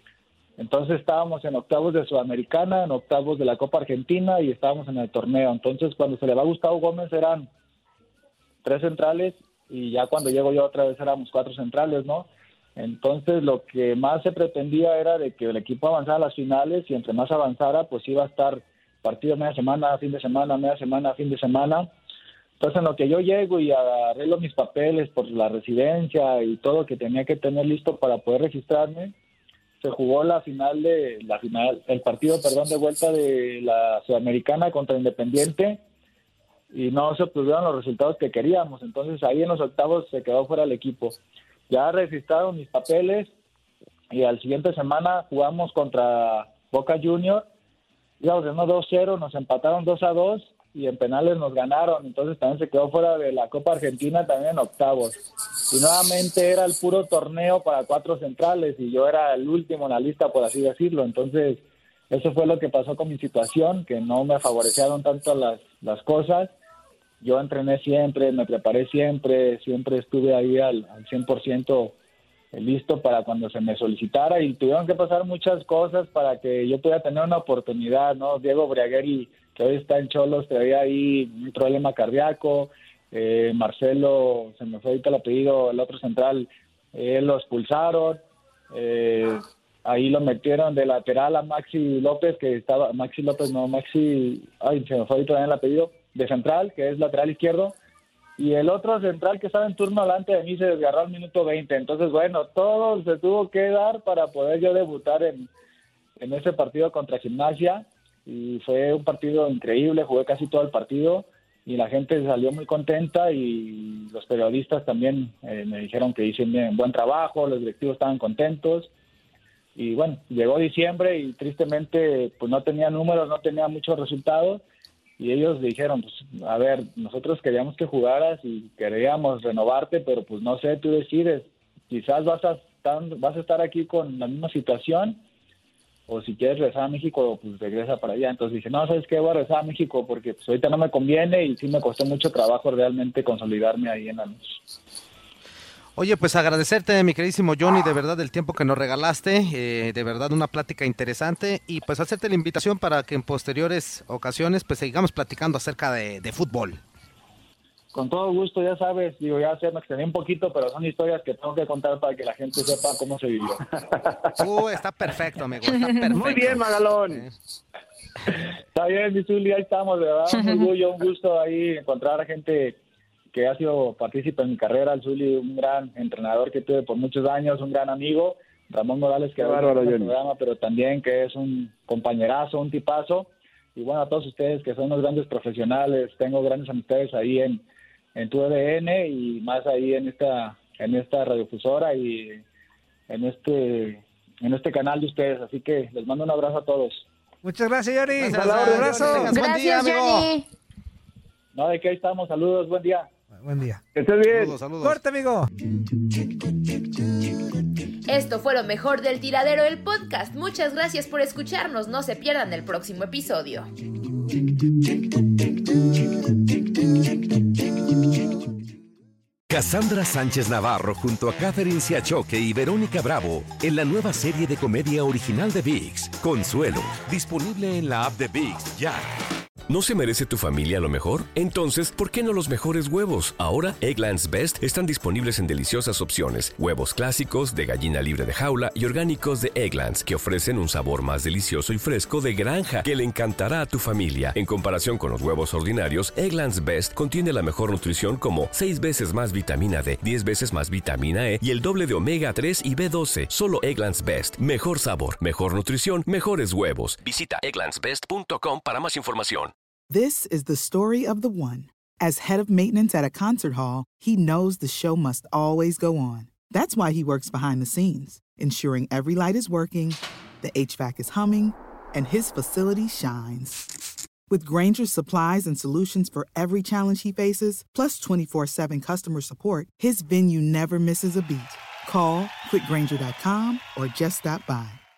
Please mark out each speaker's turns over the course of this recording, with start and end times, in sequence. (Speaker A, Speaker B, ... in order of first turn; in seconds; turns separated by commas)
Speaker A: 0.6-7.5, Speaker A: 8.6-21.9, Speaker A: 22.6-29.1, Speaker A: 29.8-35.8, Speaker A: 36.7-43.3, Speaker A: 44.1-47.5, Speaker A: 48.2-66.5, Speaker A: 67.2-72.0, Speaker A: 72.5-97.8, Speaker A: 98.4-105.5, Speaker A: 106.2-118.9, Speaker A: 119.8-124.6, Speaker A: 125.2-135.2, Speaker A: 136.1-144.6, Speaker B: 146.0-156.8, Speaker A: 157.9-163.6, Speaker B: 164.4-167.3, Speaker C: 166.2-167.2, Speaker A: 168.8-172.8, Speaker A: 173.3-187.6, Speaker C: 179.4-180.1, Speaker A: 188.2-192.4, Speaker A: 193.1-197.1, Speaker D: 197.4-199.4, Speaker B: 198.2-200.3, Speaker C: 198.2-199.2, Speaker E: 199.3-200.4, Speaker A: 201.5-203.1, Speaker D: 203.4-203.8, Speaker C: 203.9-204.6, Speaker B: 204.3-205.0, Speaker D: 204.8-205.5, Speaker E: 208.1-213.7, Speaker F: 219.5-229.1, Speaker G: 229.7-259.5, Speaker H: 259.9-273.6, Speaker H: 274.3-284.8